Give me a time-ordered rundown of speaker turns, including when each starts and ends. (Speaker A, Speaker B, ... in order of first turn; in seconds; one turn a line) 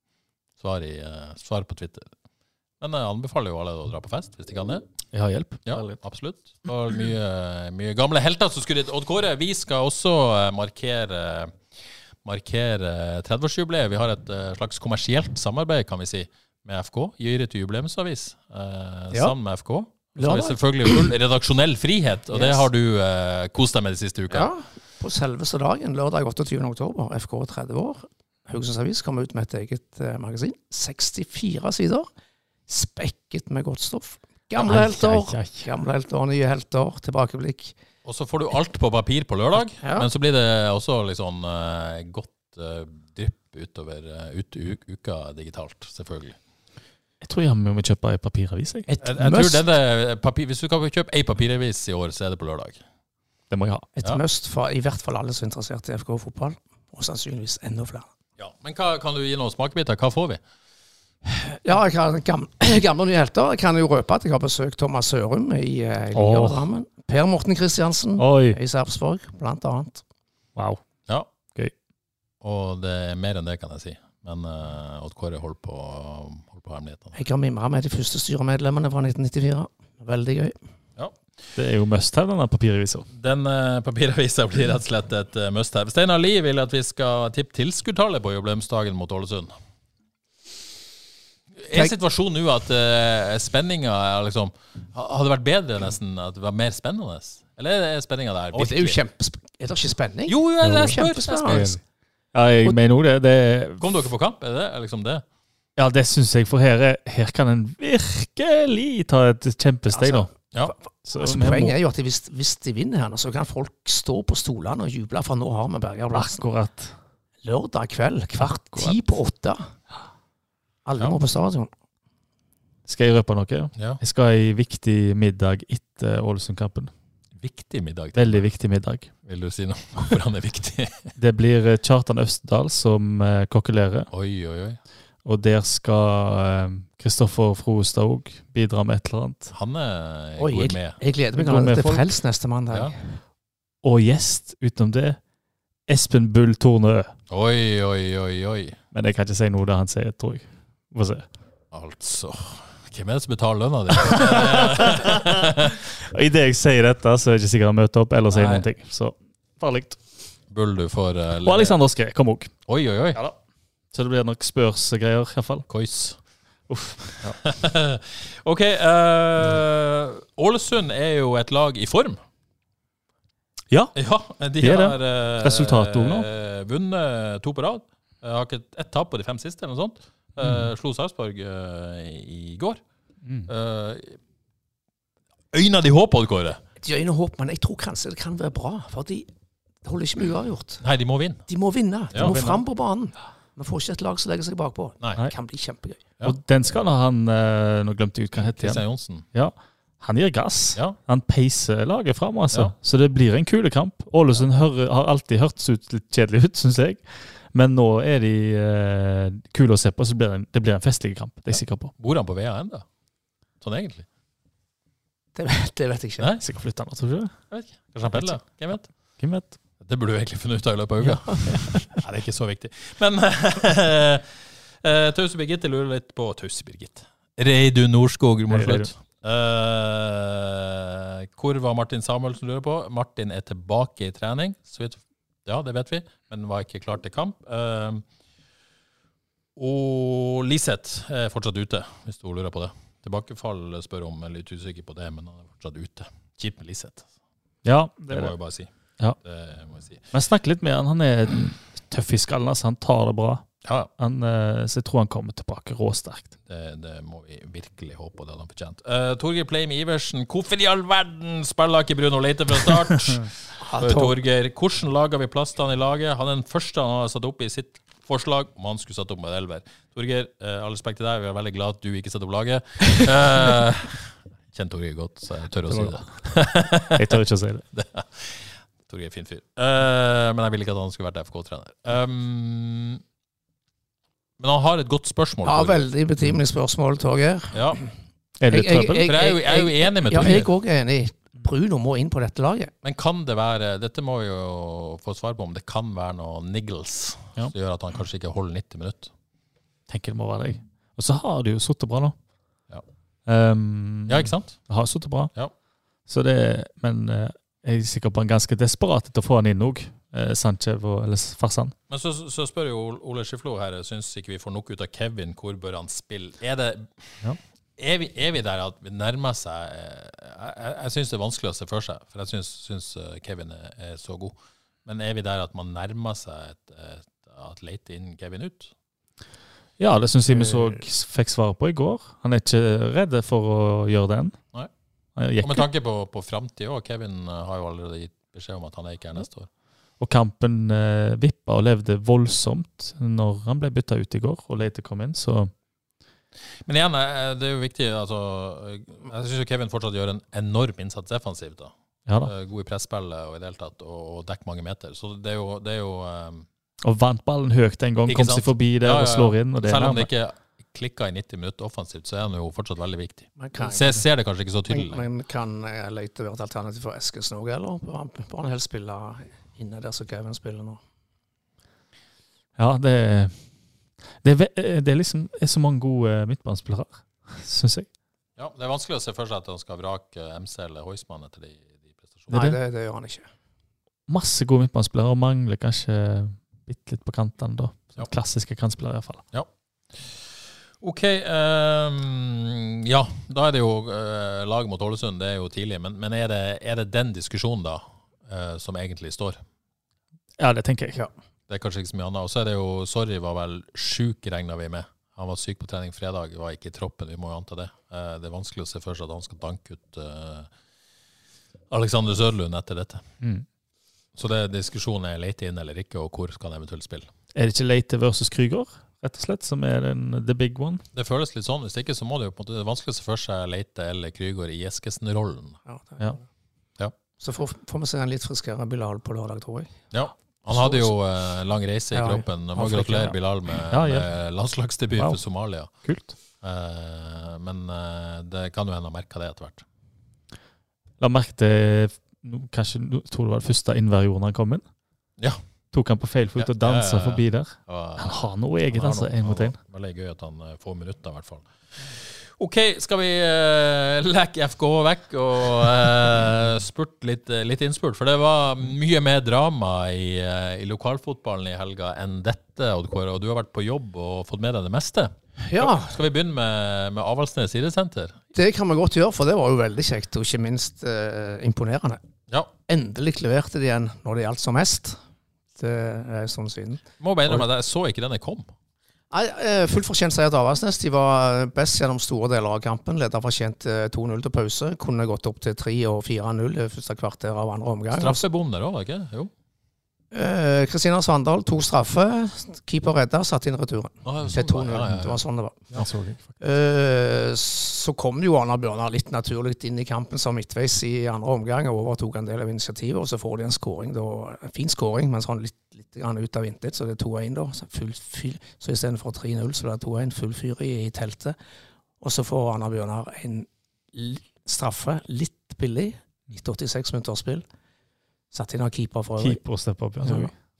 Speaker A: 0.6-2.1
Speaker A: 2.8-4.8
Speaker B: 5.1-6.0
Speaker A: 5.7-11.6
Speaker A: 12.2-24.5
Speaker C: 20.2-21.1
Speaker C: 22.3-22.6
Speaker C: 24.3-32.1
Speaker C: 32.7-37.7
Speaker B: 34.6-35.7
Speaker A: 38.0-46.4
Speaker C: 39.8-40.1
Speaker B: 47.2-48.9
Speaker C: 48.9-49.6
Speaker A: 49.0-52.8
Speaker B: 53.5-53.9
Speaker C: 54.0-58.1
Speaker A: 58.4-60.4
Speaker C: 61.3-70.0
Speaker B: 66.1-66.6
Speaker B: 68.2-68.6
Speaker B: 70.5-70.8
Speaker A: 72.4-77.2
Speaker C: 77.1-80.5
Speaker B: 81.5-83.1
Speaker A: 83.1-89.5
Speaker A: 91.6-99.0
Speaker C: 98.5-101.8
Speaker A: 100.3-101.8
Speaker B: 100.6-101.8
Speaker B: 102.3-103.8
Speaker A: 103.8-105.2
Speaker B: 105.8-110.3
Speaker C: 109.9-116.4
Speaker B: 111.1-111.8
Speaker B: 116.1-116.9
Speaker C: 117.4-119.6
Speaker B: 118.4-119.0
Speaker C: 120.8-121.7
Speaker B: 122.9-126.9
Speaker A: 123.8-124.0
Speaker A: 127.4-128.4
Speaker B: 128.1-129.1
Speaker A: 129.2-131.1
Speaker B: 131.2-134.1
Speaker A: 134.1-134.8
Speaker B: 135.2-139.5
Speaker A: 139.5-141.0
Speaker C: 140.4-143.0
Speaker B: 141.3-142.1
Speaker B: 143.8-145.2
Speaker B: 145.9-147.1
Speaker A: 147.3-148.8
Speaker B: 148.9-151.3
Speaker A: 151.7-155.8
Speaker B: 154.1-155.3
Speaker B: 156.1-160.0
Speaker A: 158.3-158.7
Speaker A: 160.5-161.8
Speaker B: 161.4-162.5
Speaker A: 162.7-163.2
Speaker B: 163.9-165.7
Speaker A: 165.7-166.2
Speaker B: 166.7-167.4
Speaker A: 167.2-172.2
Speaker A: 173.9-182.8
Speaker B: 174.6-176.2
Speaker B: 180.4-180.7
Speaker A: 183.5-184.2
Speaker A: 185.5-186.6
Speaker C: 186.8-189.3
Speaker C: 189.8-190.8
Speaker A: 190.8-191.5
Speaker C: 191.5-196.0
Speaker A: 192.1-192.4
Speaker B: 192.2-192.6
Speaker B: 196.2-198.8
Speaker A: 198.4-199.2
Speaker B: 199.3-211.9
Speaker A: 211.5-212.8
Speaker A: 213.6-214.1
Speaker C: 215.3-216.3
Speaker B: 216.4-217.3
Speaker A: 217.5-218.9
Speaker B: 218.1-218.3
Speaker B: 219.2-219.6
Speaker A: 219.8-224.2
Speaker B: 221.0-221.8
Speaker A: 224.8-238.0
Speaker B: 228.5-228.9
Speaker A: 239.6-247.1
Speaker B: 247.6-248.3
Speaker A: 248.1-248.7
Speaker A: 249.2-250.0
Speaker B: 250.1-253.4
Speaker A: 253.6-253.9
Speaker B: 254.0-256.3
Speaker A: 256.5-277.1
Speaker C: 263.6-264.1
Speaker B: 275.7-276.1
Speaker B: 276.9-277.6
Speaker A: 277.7-283.0
Speaker A: 284.4-285.8
Speaker C: 285.4-287.9
Speaker A: 287.5-287.8
Speaker B: 288.4-289.1
Speaker C: 288.5-292.7
Speaker A: 289.1-290.5
Speaker A: 292.8-299.1
Speaker B: 299.9-302.1
Speaker B: 303.2-305.3
Speaker A: 304.1-304.7
Speaker B: 306.1-311.7
Speaker A: 311.9-317.2
Speaker A: 317.8-328.7
Speaker B: 329.8-334.4
Speaker B: 335.2-335.6
Speaker A: 335.4-339.5
Speaker B: 340.0-345.5
Speaker A: 346.6-356.4
Speaker B: 356.8-360.1
Speaker A: 358.1-365.0
Speaker C: 363.4-364.0
Speaker C: 364.7-370.8
Speaker B: 372.6-373.4
Speaker B: 374.2-377.9
Speaker A: 378.4-382.3
Speaker C: 382.3-383.2
Speaker B: 382.3-382.6
Speaker B: 384.1-389.2
Speaker A: 389.3-390.2
Speaker A: 390.8-399.4
Speaker B: 400.4-401.0
Speaker A: 401.5-410.5
Speaker A: 411.7-413.0
Speaker A: 414.1-417.1
Speaker B: 417.3-420.8
Speaker A: 420.9-425.6
Speaker C: 425.7-426.2
Speaker C: 427.2-429.7
Speaker A: 429.9-435.7
Speaker C: 430.5-430.9
Speaker C: 431.9-432.8
Speaker B: 432.6-433.1
Speaker B: 433.7-434.1
Speaker B: 435.7-436.1
Speaker A: 436.4-439.6
Speaker B: 441.0-444.6
Speaker B: 445.7-449.6
Speaker A: 446.4-468.2
Speaker C: 465.4-466.0
Speaker C: 468.3-472.0
Speaker C: 472.7-475.0
Speaker C: 475.6-477.4
Speaker A: 477.0-478.5
Speaker C: 479.1-488.2
Speaker A: 487.9-489.3
Speaker C: 490.1-495.7
Speaker A: 494.0-495.2
Speaker B: 495.7-496.3
Speaker C: 496.4-511.4
Speaker C: 512.0-517.4
Speaker C: 518.3-519.4
Speaker B: 519.2-520.3
Speaker C: 520.0-520.3